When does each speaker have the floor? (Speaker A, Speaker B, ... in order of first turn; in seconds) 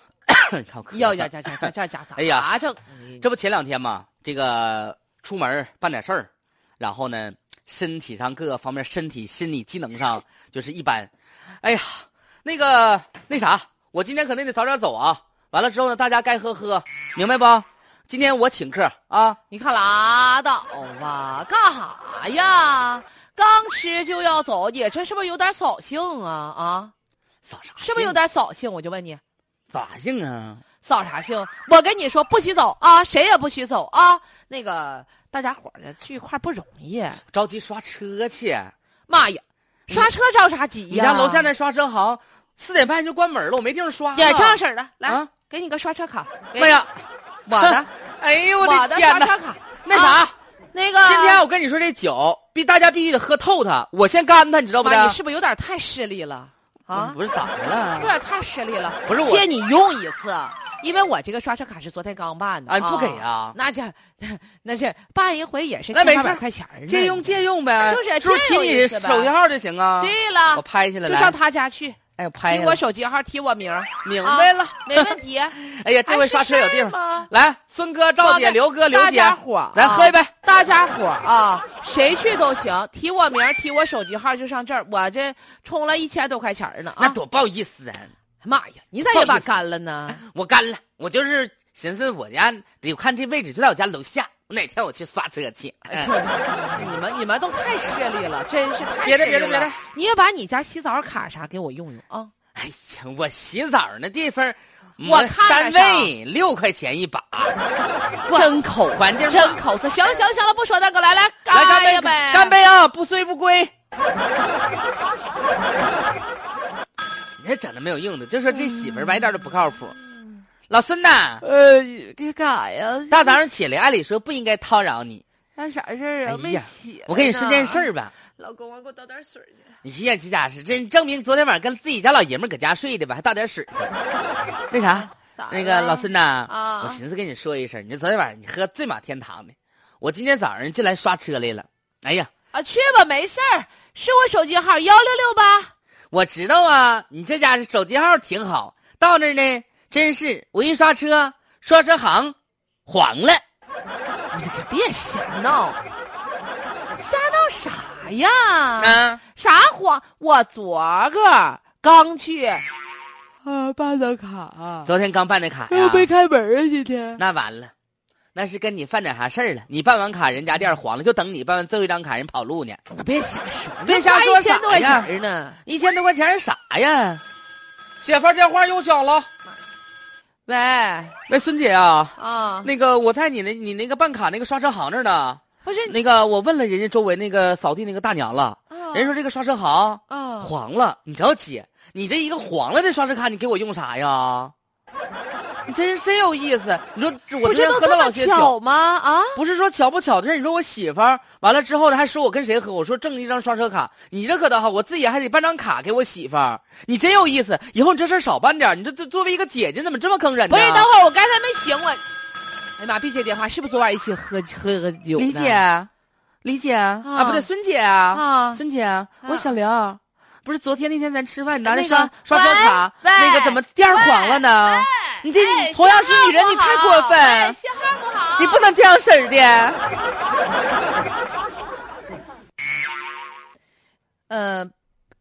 Speaker A: 0.3-2.5, 3.2-6.3, 6.8-11.1, 11.6-19.4, 27.4-28.2, 29.7-30.6, 37.3-38.7, 40.9-45.3, 46.6-47.0, 47.6-50.3, 51.0-55.2, 56.9-58.1, 59.1-59.5, 62.7-63.5, 65.9-71.4, 72.2-72.8, 74.0-80.3, 87.0-88.1, 89.1-96.1, 99.0-99.8, 102.5-107.6, 108.3-109.6, 111.5-113.7, 117.4-119.9, 120.7-121.4, 123.1-125.2, 126.2-128.1, 129.8-133.9, 134.7-142.3, 146.1-152.3, 152.9-153.4, 158.8-159.2, 164.8-166.1, 167.2-167.7, 168.3-172.8, 173.8-175.1, 175.7-177.2, 178.0-179.3, 181.3-194.5, 195.7-198.5, 199.3-210.9, 215.2-215.9, 216.4-227.6, 228.4-229.8
Speaker B: 0.9-3.2, 19.5-26.9, 27.8-29.2, 30.8-37.2, 39.1-41.5, 44.1-46.8, 47.5-47.9, 48.6-51.4, 54.8-57.2, 58.0-69.3, 70.0-77.3, 78.2-87.2, 88.4-90.2, 95.9-102.3, 105.0-106.1, 108.3-112.6, 118.5-119.8, 121.4-123.4, 125.6-129.7, 134.8-137.0, 142.5-145.7, 154.3-155.8, 156.9-162.7, 163.4-164.9, 165.7-167.2, 172.9-175.6, 180.5-181.2, 182.2-182.7, 185.6-185.9, 188.7-189.1, 190.1-190.5, 197.4-199.4, 210.5-212.0, 212.8-215.6, 217.0-217.5, 218.1-218.6, 219.2-219.5, 221.6-228.7, 234.3-234.7